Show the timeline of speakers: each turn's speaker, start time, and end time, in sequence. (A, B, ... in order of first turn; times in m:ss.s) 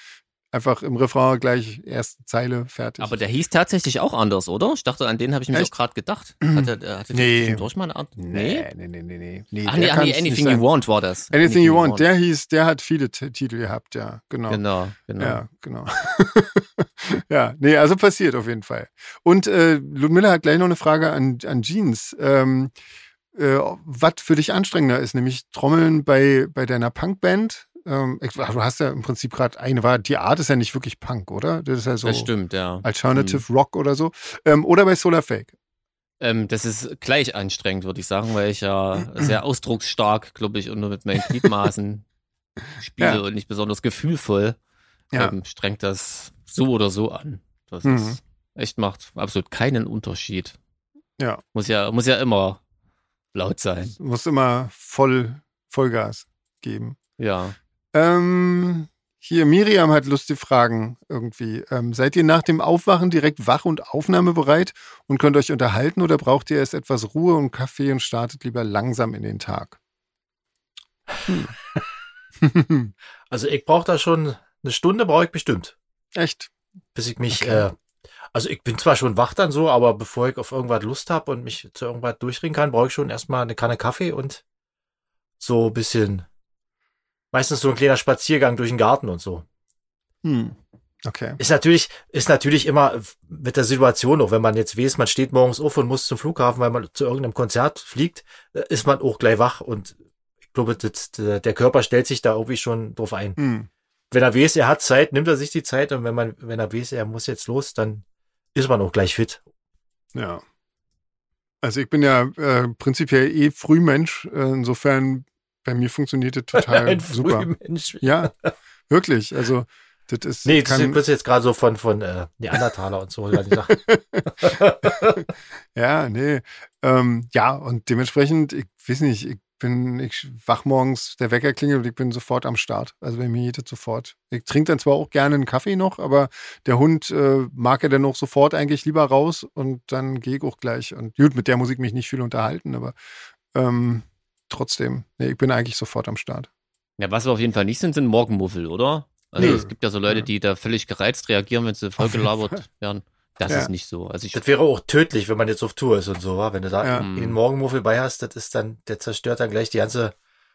0:00.5-0:03.2 A
0:03.0-0:08.7 B
0:06.4-0:07.6 A
0:08.2-0:10.6 A
0:09.6-0:12.0 B
0:11.3-0:14.6 A
0:14.5-0:15.4 B
0:15.2-0:22.7 A
0:23.3-0:32.3 A
0:32.0-0:33.4 B
0:32.8-0:35.5 A
0:36.2-0:42.0 B
0:42.8-0:44.6 B
0:45.1-0:50.6 B
0:47.8-0:48.2 A
0:51.5-0:52.6 B
0:53.3-0:54.0 B
0:54.0-0:57.0 A
0:57.2-0:57.6 B
0:57.9-1:09.8 A
1:11.3-1:11.5 A
1:12.4-1:12.9 A
1:13.3-1:15.7 C
1:16.1-1:16.5 A
1:16.9-1:17.7 C
1:17.3-1:17.6 A
1:18.3-1:24.4 C
1:25.4-1:26.2 C
1:27.3-1:29.4 C
1:30.2-1:31.4 A
1:31.4-1:39.9 C
1:40.5-1:43.4 C
1:43.4-1:43.7 A
1:44.1-1:48.0 C
1:48.5-1:49.4 C
1:50.1-1:50.4 A
1:51.6-1:57.5 A
1:56.5-1:58.5 C
1:58.0-1:58.3 A
1:58.9-2:01.0 A
2:00.4-2:03.8 C
2:03.7-2:05.2 A
2:04.3-2:05.2 C
2:05.7-2:22.9 A
2:23.5-2:26.5 A
2:27.0-2:34.4 B
2:29.4-2:30.3 A
2:32.0-2:32.5 A
2:34.3-2:40.1 C
2:36.9-2:37.4 B